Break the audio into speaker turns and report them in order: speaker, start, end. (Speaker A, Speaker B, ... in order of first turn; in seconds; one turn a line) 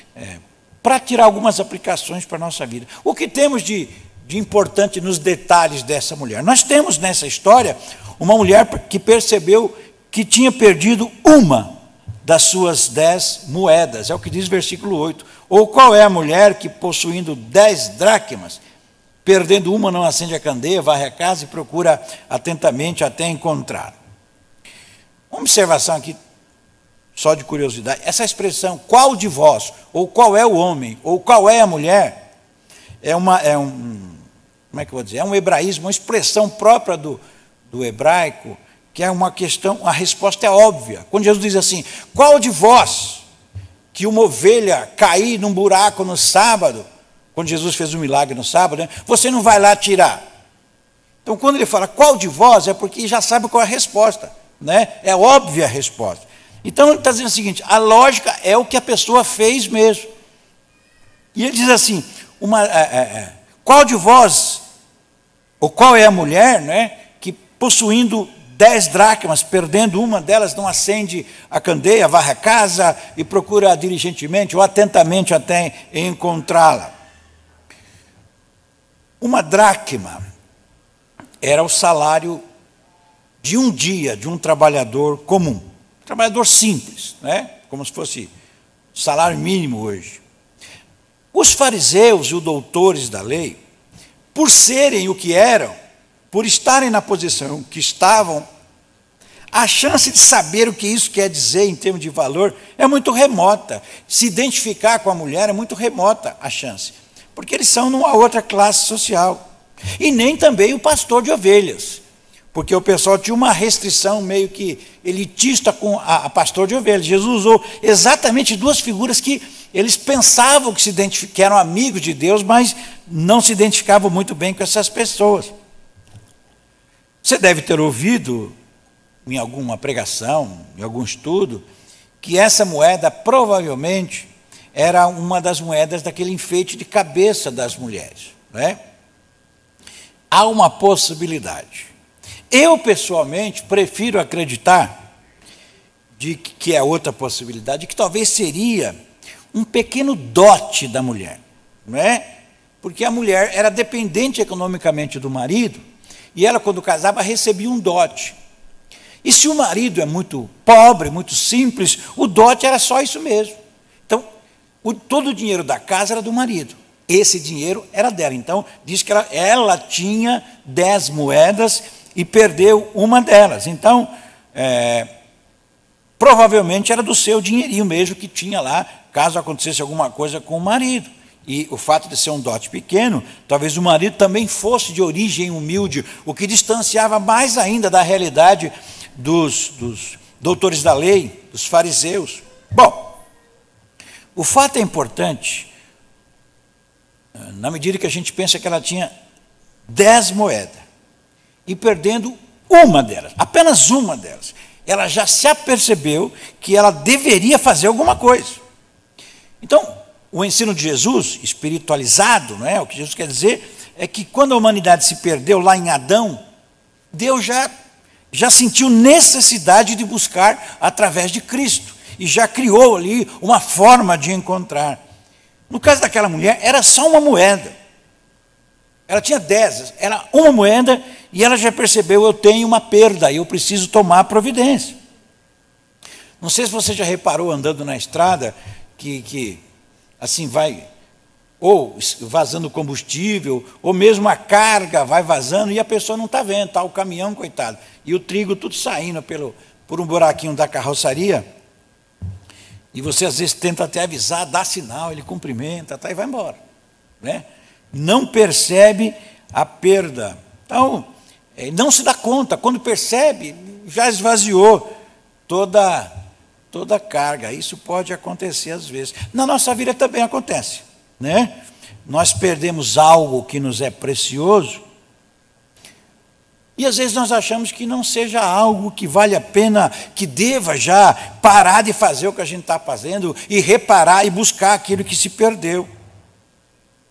Speaker A: 0.1-18.6
Speaker A: 19.2-24.0
Speaker A: 25.3-26.2
Speaker A: 27.1-32.2
Speaker A: 33.0-43.2
Speaker A: 43.9-50.2
Speaker A: 51.2-60.1
Speaker A: 61.4-64.6
Speaker A: 65.6-76.9
Speaker A: 79.2-80.2
Speaker A: 81.4-82.4
Speaker A: 83.4-88.3
Speaker A: 88.9-90.2
Speaker A: 91.3-93.6
Speaker A: 94.3-95.7
Speaker A: 96.3-98.5
Speaker A: 99.5-109.4
Speaker A: 110.0-112.0
Speaker A: 112.5-125.5
Speaker A: 127.2-128.5
Speaker A: 129.2-131.7
Speaker A: 132.2-138.8
Speaker A: 140.3-141.9
Speaker A: 142.5-144.9
Speaker A: 146.2-148.9
Speaker A: 149.5-152.3
Speaker A: 152.8-155.8
Speaker A: 156.3-158.4
Speaker A: 159.2-163.6
Speaker A: 164.8-175.1
Speaker A: 176.2-193.2
Speaker A: 194.4-195.7
Speaker A: 197.4-199.1
Speaker A: 199.9-200.8
Speaker A: 201.7-208.6
Speaker A: 209.6-216.4
Speaker A: 217.1-217.7
Speaker A: 218.3-225.0
Speaker A: 225.7-227.7
Speaker A: 229.1-234.9
Speaker A: 236.4-239.6
Speaker A: 240.2-240.9
Speaker A: 241.6-251.4
Speaker A: 252.9-256.6
Speaker A: 257.2-264.9
Speaker A: 265.5-266.1
Speaker A: 266.7-274.8
Speaker A: 276.8-285.9